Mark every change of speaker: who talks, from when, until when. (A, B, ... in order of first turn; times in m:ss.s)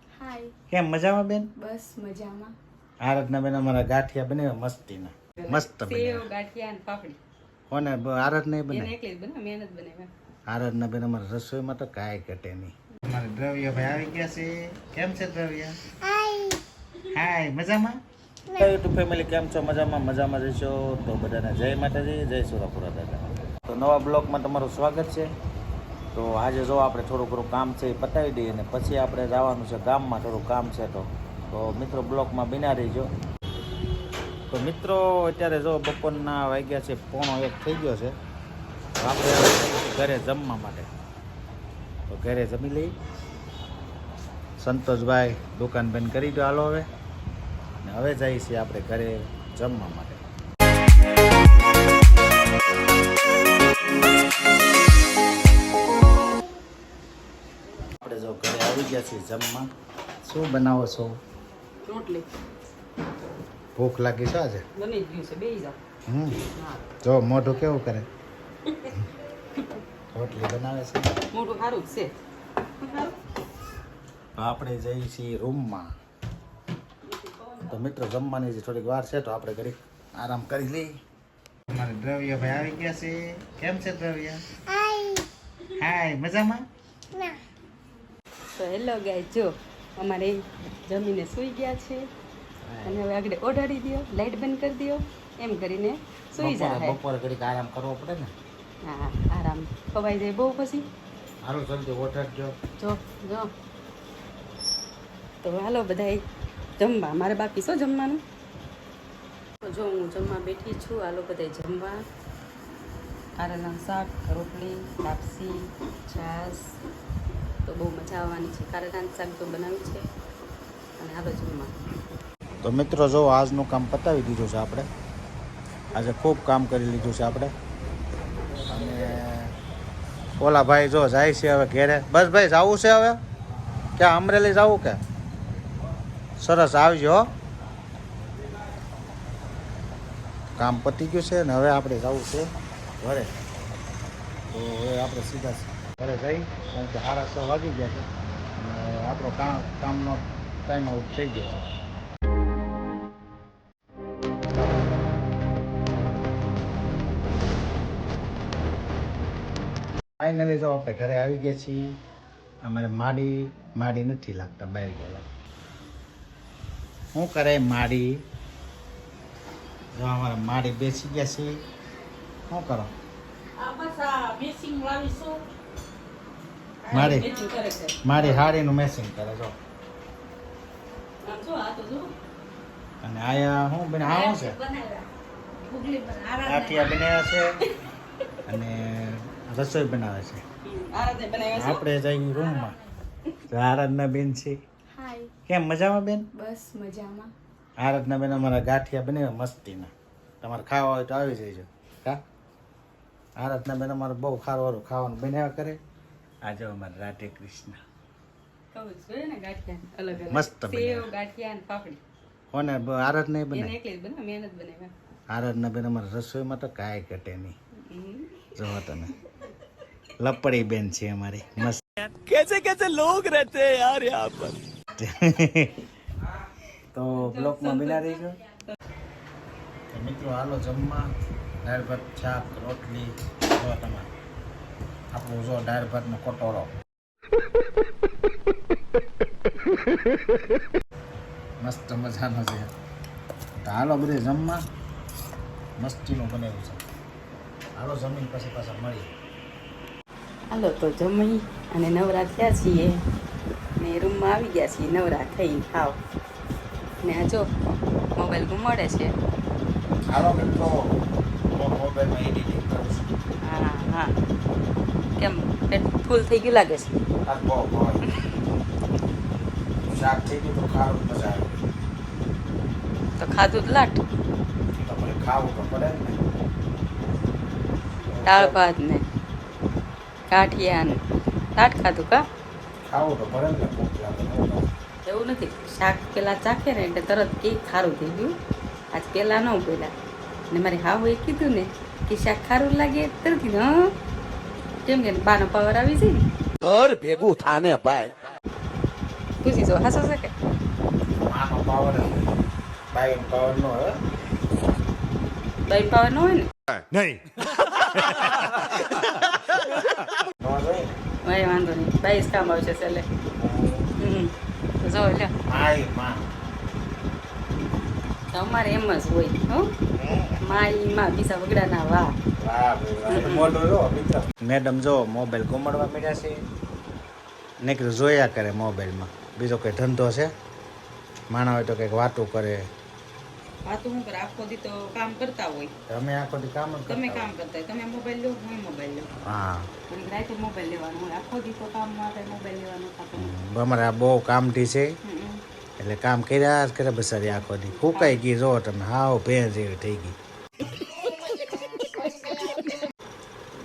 0:00.2-0:00.5 A
0:00.7-0:01.5 B
0:01.6-0:02.5 A
0:03.0-0:06.3 B
0:05.4-0:07.2 C
0:07.7-0:08.9 B
0:08.7-0:10.1 C
0:10.5-0:15.8 B
0:17.1-0:18.0 B
0:18.5-0:25.3 B
0:26.1-0:33.1 B
0:34.5-0:38.2 B
0:39.0-0:40.9 B
0:42.1-0:42.9 B
0:44.6-0:46.9 B
0:47.8-0:50.2 B
0:58.0-0:59.7 B
1:00.2-1:01.2 B
1:01.8-1:02.3 C
1:03.8-1:04.6 B
1:04.7-1:05.8 C
1:06.1-1:06.4 B
1:06.5-1:06.8 C
1:07.0-1:08.1 B
1:08.7-1:09.0 C
1:09.6-1:09.8 C
1:10.1-1:11.1 B
1:11.3-1:12.2 C
1:12.8-1:13.2 C
1:14.4-1:15.9 B
1:17.1-1:17.7 C
1:17.6-1:21.0 B
1:21.7-1:24.4 B
1:25.7-1:26.6 B
1:28.6-1:32.1 C
1:32.6-1:33.0 B
1:32.8-1:37.0 C
1:36.4-1:38.3 B
1:38.8-1:40.9 C
1:41.4-1:42.5 B
1:42.8-1:43.5 C
1:45.4-1:46.2 C
1:46.8-1:48.2 C
1:49.6-1:52.0 C
1:53.4-1:56.8 C
1:57.6-2:00.1 C
2:01.0-2:01.7 C
2:02.6-2:04.9 B
2:05.9-2:07.5 B
2:08.6-2:09.5 B
2:10.4-2:13.2 B
2:14.0-2:15.0 B
2:16.4-2:17.3 B
2:20.6-2:23.3 B
2:24.5-2:31.6 B
2:40.2-2:42.0 B
2:42.6-2:45.2 B
2:47.1-2:48.2 B
2:49.9-2:51.6 B
2:52.5-2:52.9 B
2:53.6-2:55.4 C
2:56.9-2:58.5 C
2:56.9-2:57.3 B
2:58.0-2:59.6 B
3:01.2-3:02.1 C
3:03.0-3:04.6 B
3:04.0-3:05.1 C
3:05.6-3:07.0 C
3:06.4-3:07.6 B
3:08.4-3:10.4 B
3:10.6-3:11.8 C
3:11.5-3:12.8 B
3:13.5-3:14.6 B
3:14.9-3:15.3 A
3:15.5-3:16.3 B
3:16.3-3:17.3 A
3:17.8-3:22.2 B
3:23.4-3:25.8 B
3:26.4-3:27.8 B
3:28.7-3:32.0 C
3:30.2-3:31.1 B
3:32.5-3:33.7 B
3:33.5-3:34.9 C
3:35.3-3:37.6 B
3:37.9-3:38.5 C
3:38.5-3:39.1 B
3:40.2-3:41.9 B
3:42.1-3:44.6 D
3:45.0-3:45.8 B
3:46.9-3:48.4 B
3:47.2-3:48.2 C
3:49.9-3:51.0 B
3:51.6-3:54.1 B
3:55.1-3:56.7 B
4:01.6-4:02.7 B
4:03.6-4:04.6 B
4:05.8-4:06.8 B
4:07.7-4:09.1 B
4:10.5-4:13.0 C
4:13.8-4:16.0 C
4:17.0-4:19.1 C
4:20.1-4:20.9 B
4:21.5-4:23.0 B
4:23.4-4:24.1 C
4:25.2-4:27.0 C
4:27.2-4:28.0 B
4:29.9-4:31.5 B
4:33.2-4:34.0 C
4:34.7-4:36.2 B
4:38.1-4:38.6 B
4:38.2-4:39.0 C
4:40.3-4:41.0 C
4:41.6-4:42.2 C
4:42.8-4:44.6 B
4:45.0-4:48.3 C
4:48.9-4:49.9 C
4:50.5-4:53.9 C
4:54.8-4:56.2 C
4:56.6-4:58.1 D
4:59.4-5:00.3 C
5:01.2-5:02.2 B
5:02.9-5:04.0 B
5:05.7-5:06.5 C
5:10.4-5:11.0 B
5:11.2-5:13.1 C
5:13.4-5:13.9 B
5:14.0-5:15.3 C
5:15.4-5:16.2 B
5:18.3-5:19.7 C
5:20.0-5:20.4 B
5:20.4-5:22.1 C
5:22.4-5:26.4 B
5:23.1-5:23.6 C
5:27.6-5:30.3 B
5:31.3-5:32.6 B
5:33.6-5:35.7 C
5:35.9-5:37.3 B
5:36.9-5:39.1 C
5:39.2-5:39.7 B
5:39.9-5:43.3 C
5:43.1-5:45.0 B
5:45.0-5:45.4 C
5:45.8-5:50.2 B
5:47.7-5:48.2 C
5:51.8-5:52.5 C